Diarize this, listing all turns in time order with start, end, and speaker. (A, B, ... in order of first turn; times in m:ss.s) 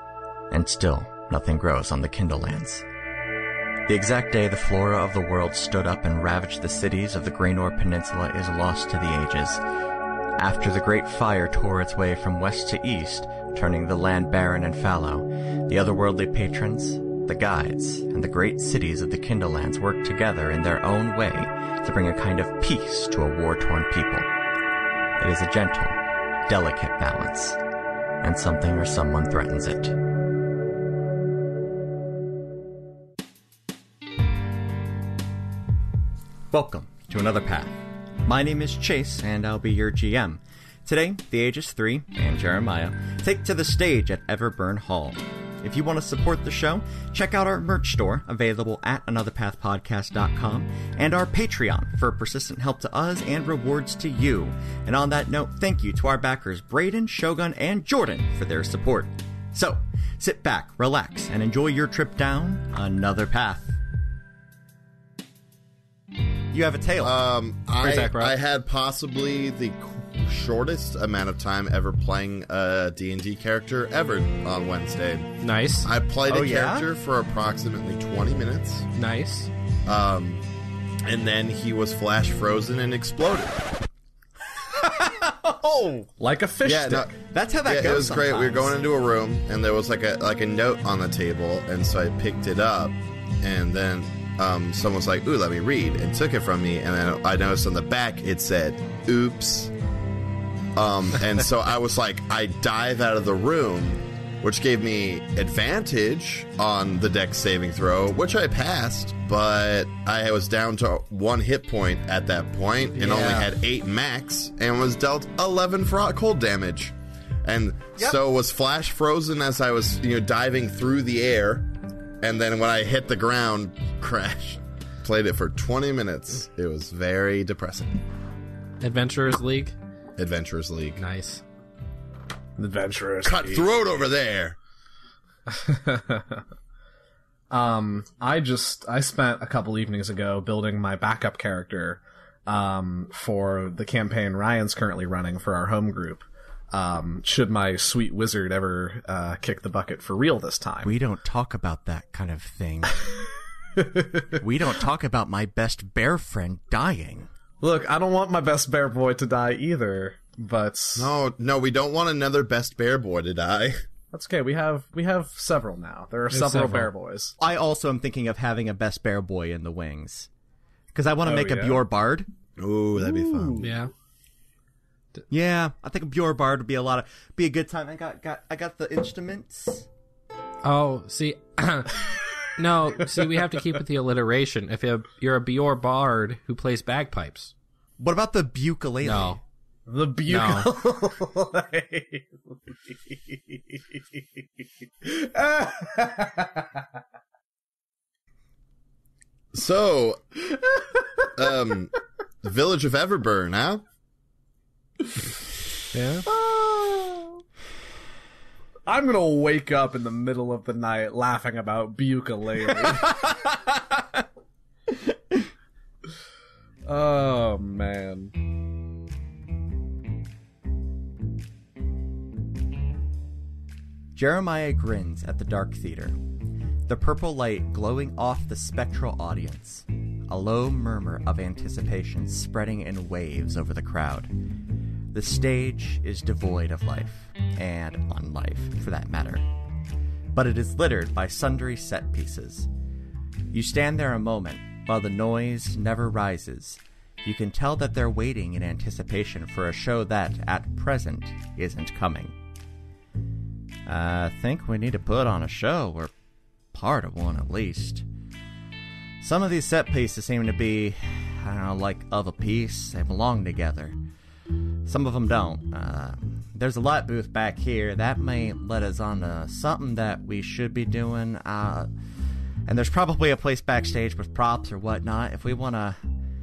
0:00.5-0:02.9 A
0:03.9-0:09.6 A
0:10.4-0:24.3 A
0:25.2-0:27.6 A
0:28.2-0:30.0 A
0:36.5-1:03.8 A
1:06.5-1:07.2 A
1:07.0-1:18.9 B
1:07.8-1:08.4 C
1:15.4-1:15.9 C
1:16.3-1:16.9 A
1:19.0-1:19.5 C
1:19.8-1:20.5 B
1:21.0-1:23.7 B
1:24.7-1:26.1 A
1:26.2-1:27.1 D
1:26.6-1:27.1 B
1:27.1-1:28.8 A
1:27.6-1:39.7 B
1:40.8-2:08.0 B
1:53.0-1:53.5 A
2:08.8-2:09.8 C
2:10.2-2:11.0 B
2:11.0-2:11.4 C
2:12.6-2:13.7 D
2:13.2-2:14.6 B
2:15.5-2:16.4 D
2:17.5-2:30.9 D
2:30.8-2:33.0 A
2:33.8-2:34.3 D
2:34.4-2:37.3 A
2:37.6-2:41.1 D
2:41.0-2:43.8 B
2:44.1-2:47.4 D
2:46.3-2:46.9 C
2:47.4-2:50.3 A
2:50.9-2:52.3 A
2:51.2-2:51.8 D
2:52.6-2:53.7 B
2:53.0-2:53.7 D
2:53.6-2:53.9 C
2:55.3-2:59.9 A
3:00.6-3:07.5 C
3:08.0-3:09.4 A
3:09.0-3:09.4 C
3:09.9-3:12.4 D
3:10.3-3:10.7 C
3:12.9-3:13.4 D
3:15.0-3:16.8 D
3:19.5-3:20.2 B
3:21.3-3:23.8 B
3:25.9-3:26.3 C
3:28.9-3:33.3 D
3:36.9-3:38.4 D
3:44.2-3:46.2 A
3:46.9-3:54.3 A
3:55.1-3:59.5 A
4:00.3-4:02.7 A
4:03.5-4:12.4 A
4:13.9-4:16.1 A
4:16.7-4:18.1 A
4:19.2-4:24.0 A
4:24.9-4:31.9 A
4:32.7-4:36.0 A